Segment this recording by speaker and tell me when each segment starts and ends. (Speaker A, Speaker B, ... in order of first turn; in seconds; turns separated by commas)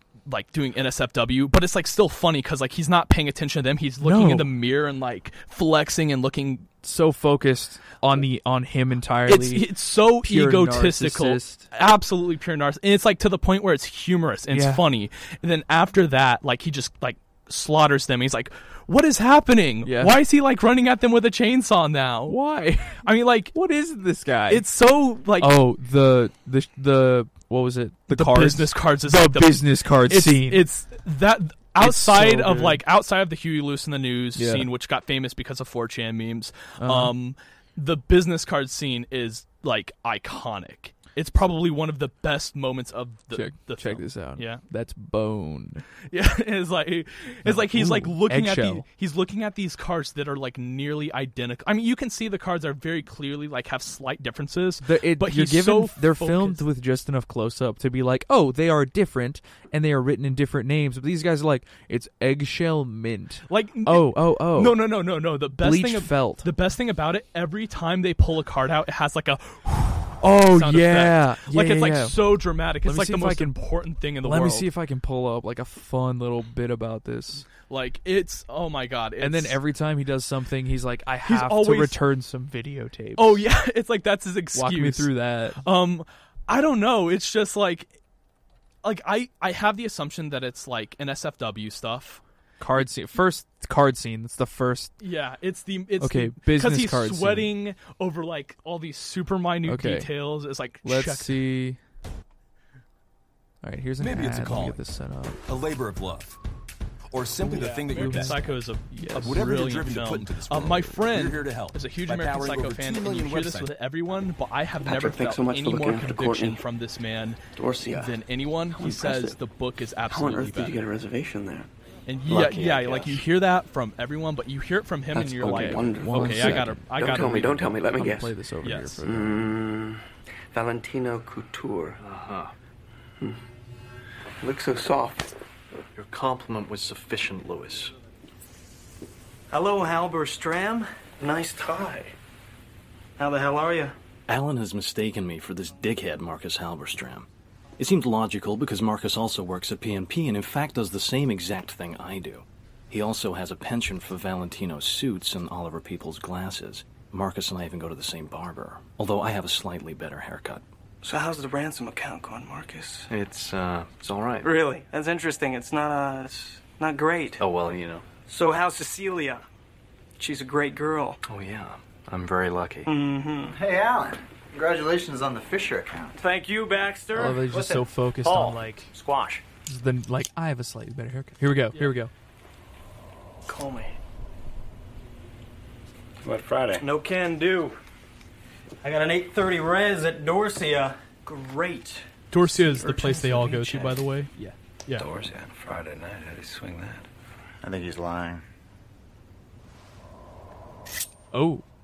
Speaker A: 0.3-6.7, Speaker B: 4.0-4.5, Speaker B: 6.8-11.7, Speaker A: 9.3-22.4, Speaker B: 14.5-14.8, Speaker B: 19.8-20.2, Speaker B: 22.3-24.7, Speaker A: 23.0-23.6, Speaker A: 24.5-25.6, Speaker B: 25.4-30.6, Speaker A: 28.1-44.6, Speaker B: 31.8-32.8, Speaker B: 34.4-34.7, Speaker B: 36.8-37.1, Speaker B: 43.3-45.9, Speaker A: 46.1-56.6, Speaker B: 47.5-48.9, Speaker B: 54.8-64.9, Speaker A: 63.5-74.7, Speaker B: 65.5-66.5, Speaker B: 70.2-73.6, Speaker B: 74.2-77.5, Speaker A: 77.7-79.6, Speaker B: 79.2-83.4, Speaker A: 81.2-82.0, Speaker A: 83.2-88.0, Speaker B: 84.5-85.6, Speaker A: 88.8-92.2, Speaker B: 92.6-95.0, Speaker A: 95.0-101.4, Speaker B: 96.0-97.5, Speaker B: 99.6-100.1, Speaker B: 100.8-101.8, Speaker B: 103.6-105.4, Speaker C: 104.0-104.8, Speaker C: 105.5-106.4, Speaker C: 107.1-108.5, Speaker B: 107.4-109.4, Speaker A: 107.5-120.9, Speaker C: 109.2-113.7, Speaker D: 114.8-116.6, Speaker D: 117.5-118.2, Speaker D: 118.7-119.4, Speaker D: 120.1-121.7, Speaker A: 122.1-127.8, Speaker D: 122.3-123.1, Speaker E: 122.3-122.8, Speaker D: 125.1-128.3, Speaker B: 125.4-129.5, Speaker A: 128.6-129.0, Speaker D: 129.0-132.0, Speaker E: 132.0-132.5, Speaker D: 134.4-135.3, Speaker E: 135.9-137.9, Speaker F: 139.5-142.1, Speaker F: 143.2-144.0, Speaker E: 144.3-147.3, Speaker E: 147.8-160.6, Speaker F: 161.0-163.1, Speaker E: 163.1-164.5, Speaker F: 164.4-167.4, Speaker E: 167.4-168.1, Speaker F: 168.3-169.4, Speaker F: 170.2-171.2, Speaker E: 171.2-172.9, Speaker F: 172.8-173.6, Speaker G: 173.5-176.2, Speaker F: 176.2-179.4, Speaker B: 177.1-178.9, Speaker B: 179.7-182.1, Speaker F: 183.5-184.0, Speaker G: 186.2-186.8, Speaker F: 186.8-187.8, Speaker F: 188.8-194.0, Speaker A: 192.3-194.3, Speaker H: 194.9-197.1, Speaker G: 197.6-198.4, Speaker B: 201.3-201.6